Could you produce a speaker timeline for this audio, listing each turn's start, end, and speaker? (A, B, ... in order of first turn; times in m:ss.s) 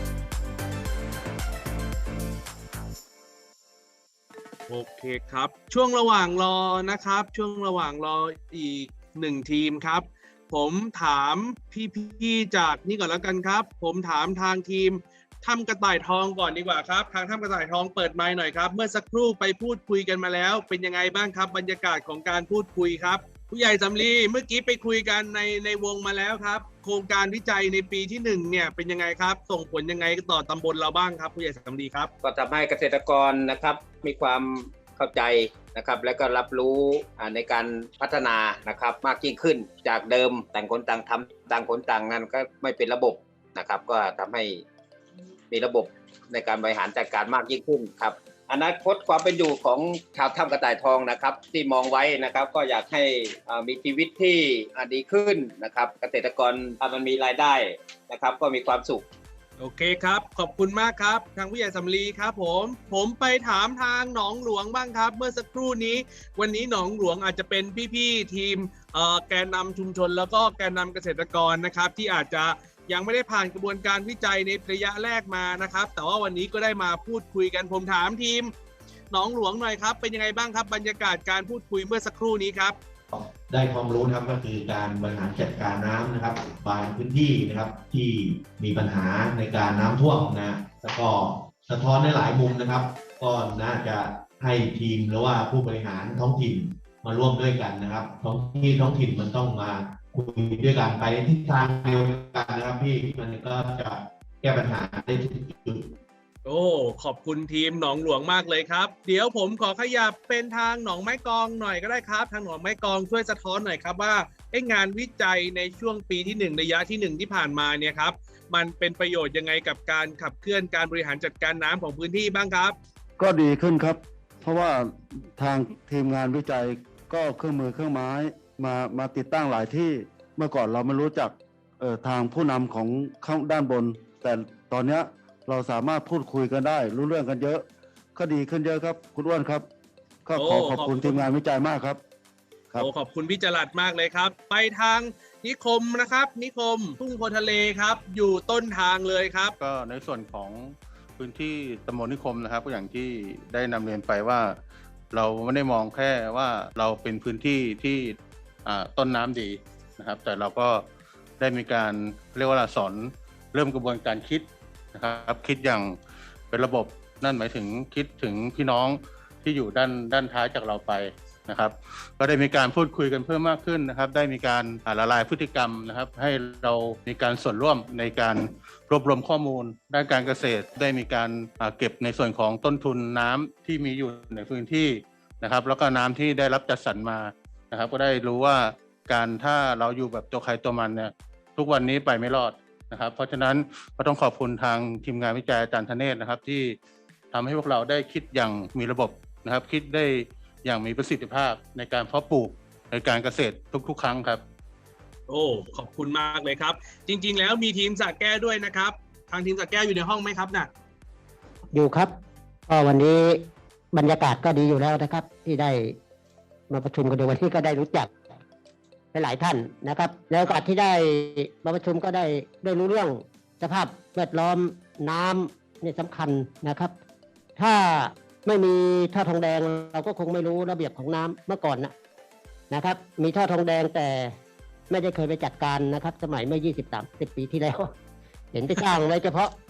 0:04.7-0:32.1 A
0:32.2-0:44.6 B
0:45.5-0:59.0 B
0:59.6-1:18.5 A
1:19.1-1:22.8 A
1:23.1-1:45.9 C
1:46.4-2:02.8 A
2:03.2-2:19.7 D
2:20.2-2:22.0 D
2:20.3-2:21.2 A
2:22.8-2:29.5 A
2:29.6-2:34.6 E
2:35.1-2:40.8 E
2:41.4-2:46.0 E
2:46.5-3:16.8 E
3:17.3-3:24.4 E
3:25.3-3:30.7 A
3:31.7-3:32.1 F
3:32.7-3:36.0 F
3:36.7-3:38.1 F
3:39.1-3:46.9 F
3:47.6-3:51.9 F
3:52.7-3:54.3 F
3:54.9-3:57.9 F
3:58.5-3:59.5 F